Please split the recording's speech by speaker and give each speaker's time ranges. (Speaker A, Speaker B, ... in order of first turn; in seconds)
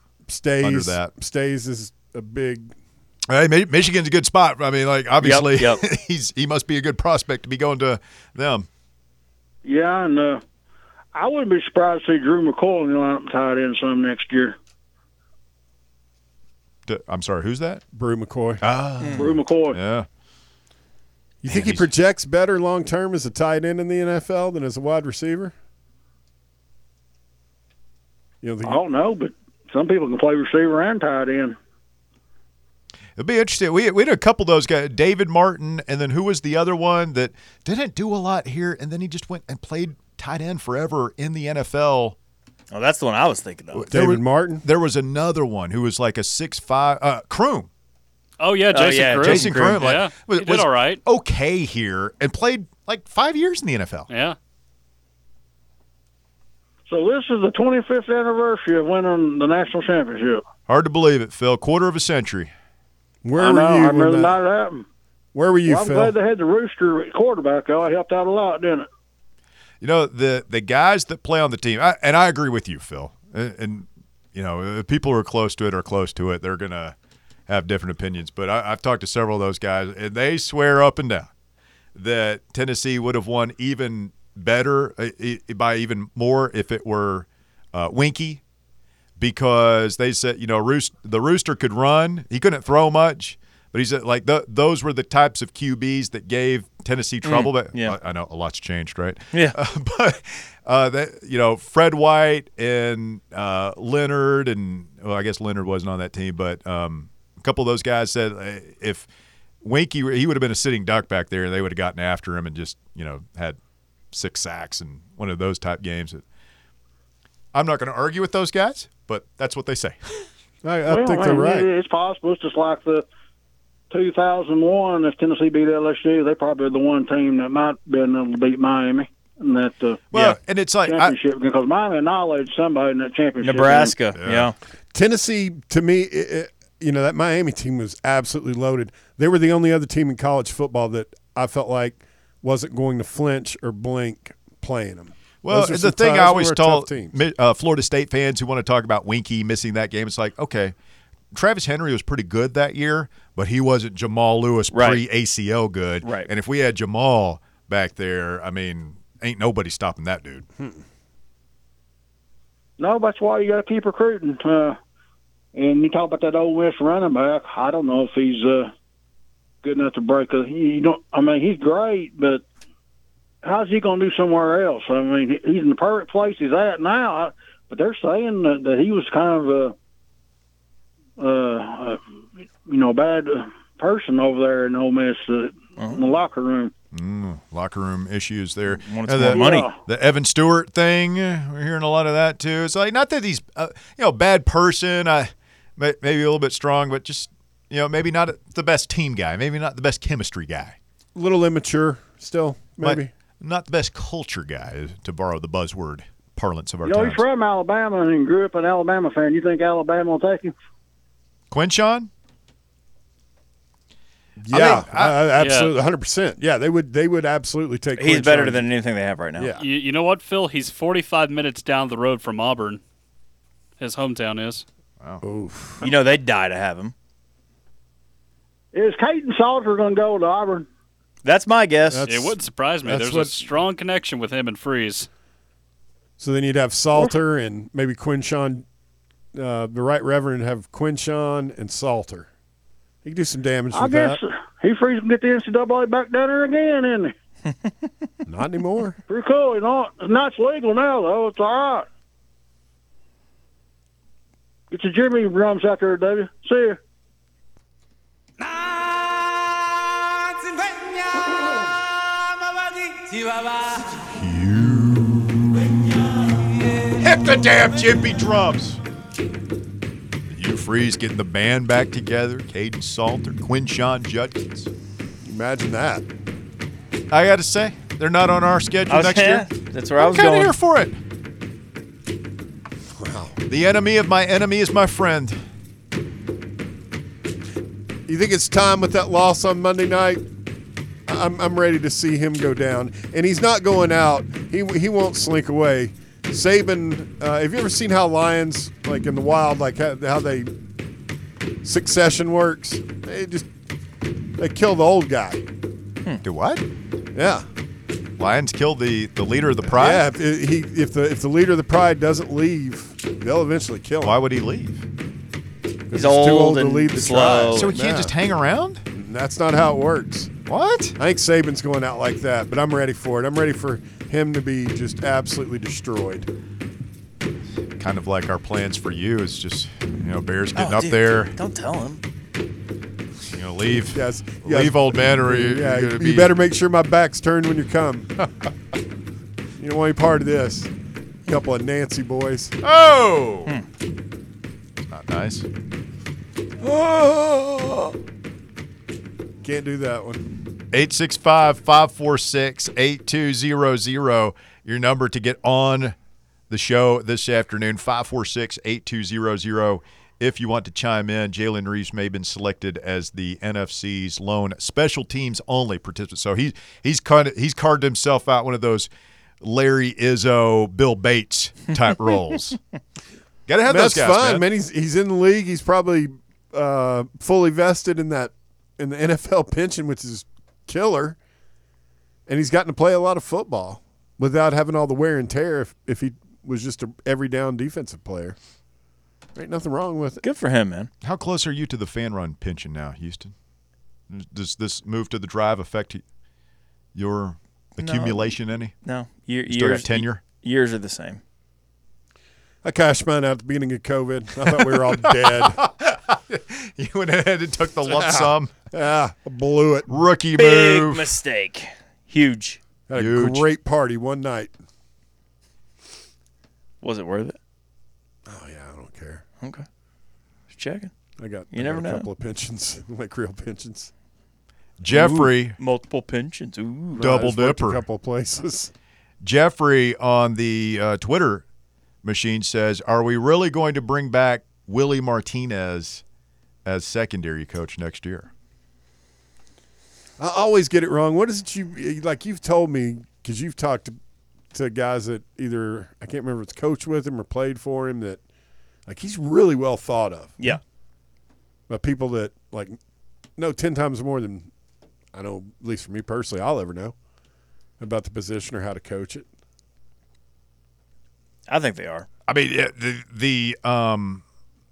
Speaker A: 0.3-2.7, 17.9-18.6, 21.4-25.5, 28.4-28.8, 43.9-44.6, 63.2-64.3, 65.3-66.1, 120.6-121.7, 134.9-147.2, 201.1-203.1, 214.4-218.7, 219.4-219.7, 225.2-225.8, 231.9-233.4, 236.2-238.7, 239.3-242.3, 243.0-244.2, 248.2-249.0, 275.2-276.1, 282.9-283.4, 288.1-290.2, 291.1-300.5, 301.6-303.5, 304.4-305.4, 307.1-307.5, 309.6-314.2, 315.9-318.1, 318.9-320.3, 321.0-326.3, 333.9-338.1, 339.6-340.7, 341.2-342.5, 349.4-350.2, 373.6-381.2, 382.3-388.4, 389.3-390.2, 402.6-405.6, 407.8-410.0, 412.9-414.5, 418.2-419.2, 421.2-423.9, 426.9-428.7, 440.2-444.0, 444.5-448.2, 448.9-450.5, 451.7-452.8, 453.4-454.5, 455.1-456.9, 457.8-459.3
Speaker B: 0.6-1.1, 3.3-8.7, 16.9-17.8, 18.6-20.1, 21.5-21.9, 33.2-42.1, 43.7-47.7, 49.2-54.1, 60.7-62.5, 69.8-76.9, 77.5-81.3, 81.9-88.4, 89.2-109.1, 109.6-113.6, 114.1-116.2, 117.5-120.2, 130.1-131.2, 134.2-134.5, 145.4-150.7, 151.3-160.4, 186.9-200.8, 202.8-207.2, 211.5-212.1, 214.5-215.2, 264.0-265.8, 267.0-268.8, 270.3-274.7, 277.1-281.0, 283.5-285.4, 306.2-306.6, 308.2-310.1, 314.0-314.8, 317.5-318.8, 320.5-320.9, 327.8-331.3, 333.3-336.3, 342.6-343.5, 344.9-345.5, 350.7-355.9, 356.5-368.9, 369.4-372.6, 373.5-374.4, 391.0-393.3, 394.1-396.0, 396.9-398.7, 399.5-400.2, 405.2-408.5, 409.9-411.1, 412.9-413.4, 424.8-425.6, 427.0-427.8, 429.2-431.4, 432.0-436.0, 436.6-438.3, 462.3-464.2
Speaker C: 5.2-5.8, 19.0-19.2, 42.7-43.9, 48.7-49.8, 97.2-98.0, 133.4-134.5, 154.7-155.0, 156.0-156.3, 185.8-186.0, 188.7-189.7, 218.0-219.5, 225.8-226.9, 231.2-232.1, 278.9-280.5, 315.9-317.7, 330.5-332.0, 346.6-347.7, 390.2-390.9, 397.8-401.2, 410.4-412.6, 416.8-417.4, 420.5-420.9, 421.5-422.1, 424.9-427.2, 461.5-462.1
Speaker D: 9.6-10.4, 11.1-14.6, 19.1-19.8, 28.6-31.6, 56.9-60.4, 63.4-64.8, 65.7-68.9, 120.9-123.0, 123.9-130.2, 130.8-133.9, 162.8-164.8, 165.5-168.7, 169.6-172.4, 173.4-179.7, 181.2-182.0, 182.7-186.7, 189.3-189.8, 206.8-210.5, 228.7-230.7, 243.7-247.1, 249.1-251.9, 254.7-256.8
Speaker E: 48.4-51.0, 54.1-54.4, 215.4-215.7, 219.6-222.8, 223.8-224.6, 232.1-235.1